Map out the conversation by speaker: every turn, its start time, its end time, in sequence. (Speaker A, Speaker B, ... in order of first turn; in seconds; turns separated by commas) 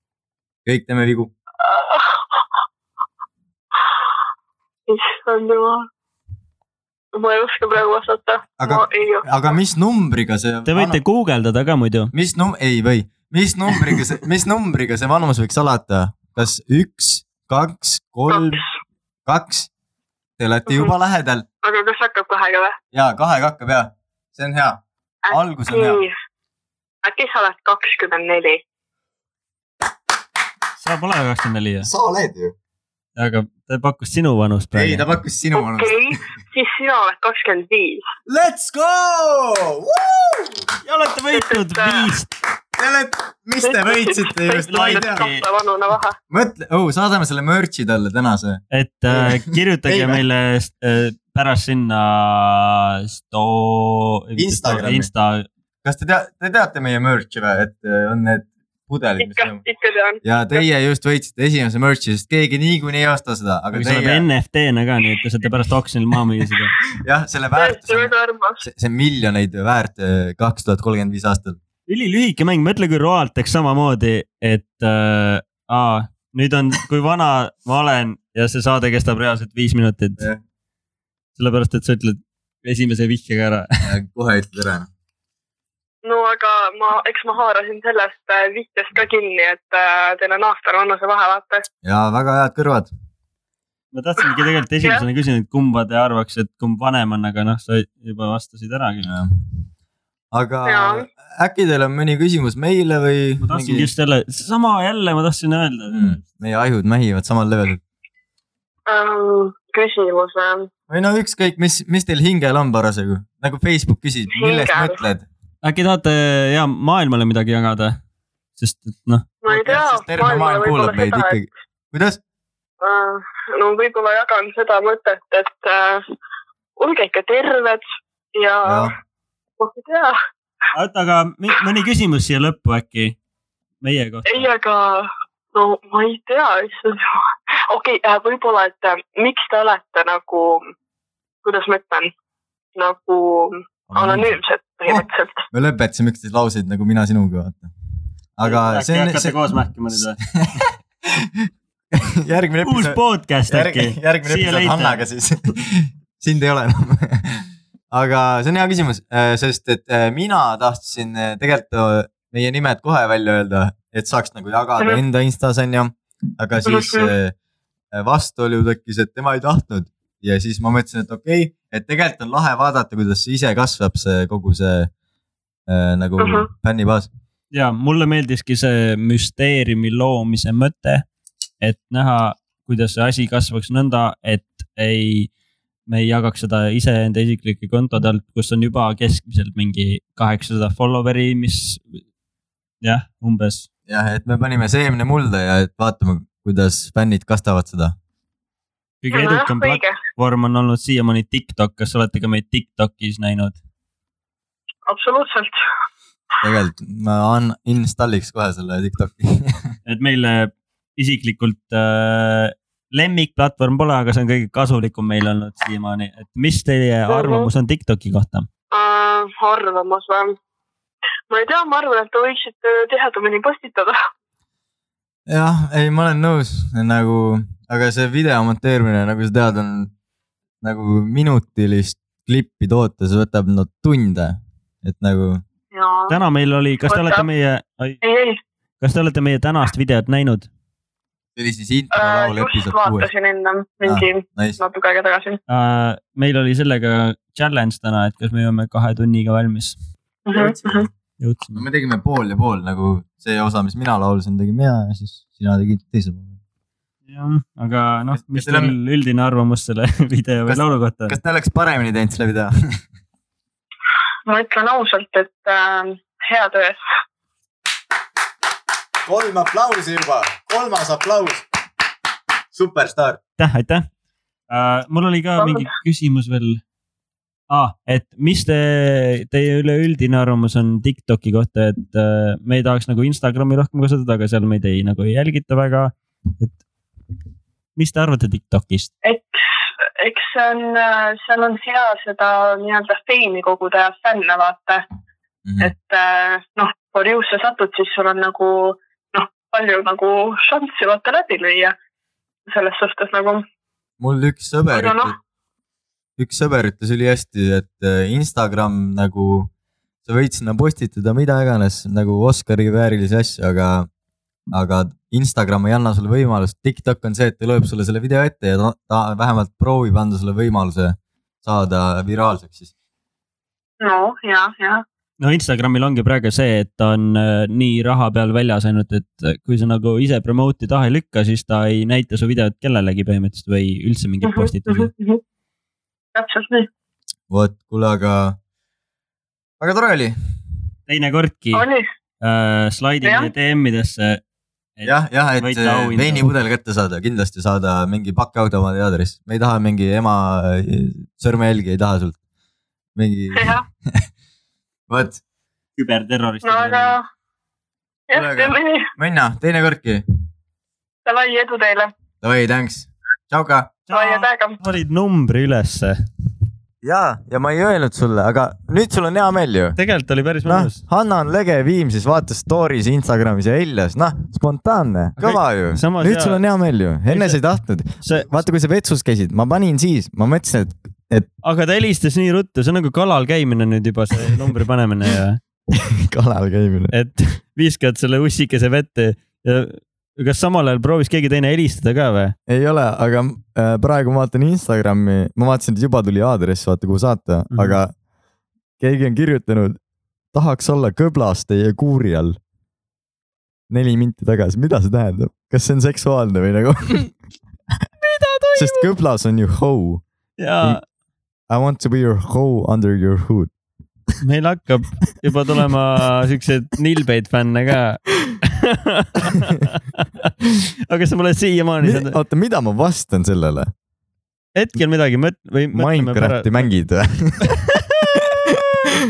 Speaker A: 0.7-1.3, Speaker B: 1.6-2.4, Speaker B: 4.9-5.8, Speaker B: 7.1-9.3, Speaker A: 8.6-11.0, Speaker C: 10.7-12.1, Speaker A: 12.1-18.6, Speaker B: 18.3-18.6, Speaker A: 19.2-19.7, Speaker A: 20.4-21.4, Speaker B: 21.6-22.8, Speaker A: 22.9-26.0, Speaker B: 25.2-26.1, Speaker B: 27.0-28.6, Speaker C: 30.8-31.9, Speaker A: 31.8-32.5, Speaker C: 33.1-35.0, Speaker A: 34.7-36.2, Speaker B: 35.5-38.0, Speaker A: 38.3-40.6, Speaker C: 40.8-42.3, Speaker B: 41.3-42.1, Speaker A: 42.8-45.3, Speaker B: 43.6-46.1, Speaker C: 44.7-45.4, Speaker A: 46.3-50.2, Speaker C: 48.7-55.5, Speaker A: 54.4-55.1, Speaker A: 55.8-59.6, Speaker B: 59.2-60.6, Speaker A: 60.2-64.2, Speaker C: 63.7-66.7, Speaker A: 67.0-71.6, Speaker B: 67.6-68.6, Speaker C: 71.9-80.2, Speaker C: 81.4-83.7, Speaker A: 83.8-84.9, Speaker B: 86.0-91.6, Speaker A: 91.8-92.9, Speaker C: 93.9-99.1, Speaker A: 99.0-99.3, Speaker A: 100.3-103.9, Speaker B: 100.7-101.0, Speaker C: 103.4-106.2, Speaker A: 105.9-107.8, Speaker B: 108.9-110.7, Speaker A: 110.9-115.2, Speaker B: 114.3-115.0, Speaker C: 115.6-118.0, Speaker C: 118.6-119.3, Speaker B: 119.4-121.4, Speaker A: 119.5-122.2, Speaker B: 122.8-126.0, Speaker B: 126.8-127.8, Speaker B: 128.3-128.9, Speaker A: 128.6-128.9, Speaker B: 129.6-130.2, Speaker C: 130.7-133.2, Speaker C: 133.8-134.5, Speaker B: 134.2-137.2, Speaker B: 137.7-140.6, Speaker B: 141.4-142.1, Speaker B: 142.8-145.4, Speaker A: 143.9-144.4, Speaker A: 144.9-147.7, Speaker A: 148.4-149.4, Speaker C: 148.4-150.2, Speaker A: 150.2-151.3, Speaker A: 152.0-167.3, Speaker C: 152.6-155.0, Speaker B: 166.6-167.1, Speaker A: 167.9-174.9, Speaker A: 175.7-177.1, Speaker B: 176.2-176.5, Speaker C: 177.5-181.0, Speaker C: 181.6-185.3, Speaker C: 185.9-192.0, Speaker C: 192.8-193.7, Speaker A: 193.9-197.9, Speaker C: 199.0-203.6, Speaker B: 199.1-199.9, Speaker B: 204.9-205.6, Speaker A: 206.4-209.7, Speaker C: 209.8-218.5, Speaker B: 217.1-217.5, Speaker B: 218.7-220.3, Speaker B: 221.3-223.9, Speaker A: 225.3-229.9, Speaker A: 230.6-235.4, Speaker B: 235.7-236.2, Speaker C: 236.1-238.0, Speaker B: 236.9-237.2, Speaker B: 238.0-238.4, Speaker C: 238.8-240.5, Speaker A: 241.3-243.1, Speaker B: 241.9-245.4, Speaker A: 243.8-244.6, Speaker C: 245.5-249.8, Speaker B: 250.2-250.9, Speaker A: 250.3-250.9, Speaker C: 251.2-251.6, Speaker A: 251.5-256.3, Speaker C: 257.1-261.1, Speaker A: 258.1-258.7, Speaker A: 260.5-262.8, Speaker B: 264.3-266.8, Speaker A: 269.1-271.4, Speaker A: 272.5-273.2, Speaker C: 273.4-273.9, Speaker C: 274.5-276.6, Speaker B: 275.4-275.7, Speaker C: 277.5-286.6, Speaker C: 287.8-288.9, Speaker B: 289.0-289.4, Speaker B: 290.0-294.8, Speaker A: 295.4-295.7, Speaker B: 295.6-301.7, Speaker B: 302.5-303.4, Speaker A: 304.0-305.1, Speaker B: 304.7-305.1, Speaker A: 306.2-309.5, Speaker A: 310.1-313.9, Speaker A: 314.5-322.7, Speaker B: 323.8-324.8, Speaker C: 325.2-334.9, Speaker B: 334.2-335.2, Speaker B: 336.1-336.7, Speaker A: 337.3-338.4, Speaker A: 339.6-340.1, Speaker C: 340.9-341.6, Speaker B: 341.5-341.8, Speaker C: 342.2-344.2, Speaker B: 343.0-343.3, Speaker C: 344.8-346.3, Speaker A: 344.8-352.2, Speaker A: 352.9-354.1, Speaker B: 353.4-353.6, Speaker A: 354.9-355.2, Speaker C: 355.8-356.9, Speaker B: 356.4-357.0, Speaker B: 358.1-358.9, Speaker A: 358.1-360.0, Speaker B: 361.1-361.9, Speaker A: 362.2-363.7, Speaker C: 363.9-366.0, Speaker B: 363.9-364.6, Speaker A: 366.8-369.8, Speaker C: 369.8-370.8, Speaker A: 370.4-381.3, Speaker C: 375.2-376.4, Speaker C: 377.1-377.4, Speaker C: 378.0-378.4, Speaker C: 381.4-385.4, Speaker A: 385.7-386.9, Speaker C: 386.9-392.3, Speaker A: 392.5-397.9, Speaker C: 397.5-397.8, Speaker A: 398.8-399.8, Speaker A: 400.3-402.4, Speaker A: 403.7-407.1, Speaker C: 408.0-408.9, Speaker A: 408.5-410.0, Speaker C: 410.4-410.8, Speaker A: 411.5-413.5, Speaker C: 414.2-420.3, Speaker C: 420.9-422.2, Speaker A: 421.8-423.7, Speaker C: 424.5-426.7, Speaker A: 425.7-427.6, Speaker C: 427.4-428.6, Speaker A: 428.1-429.0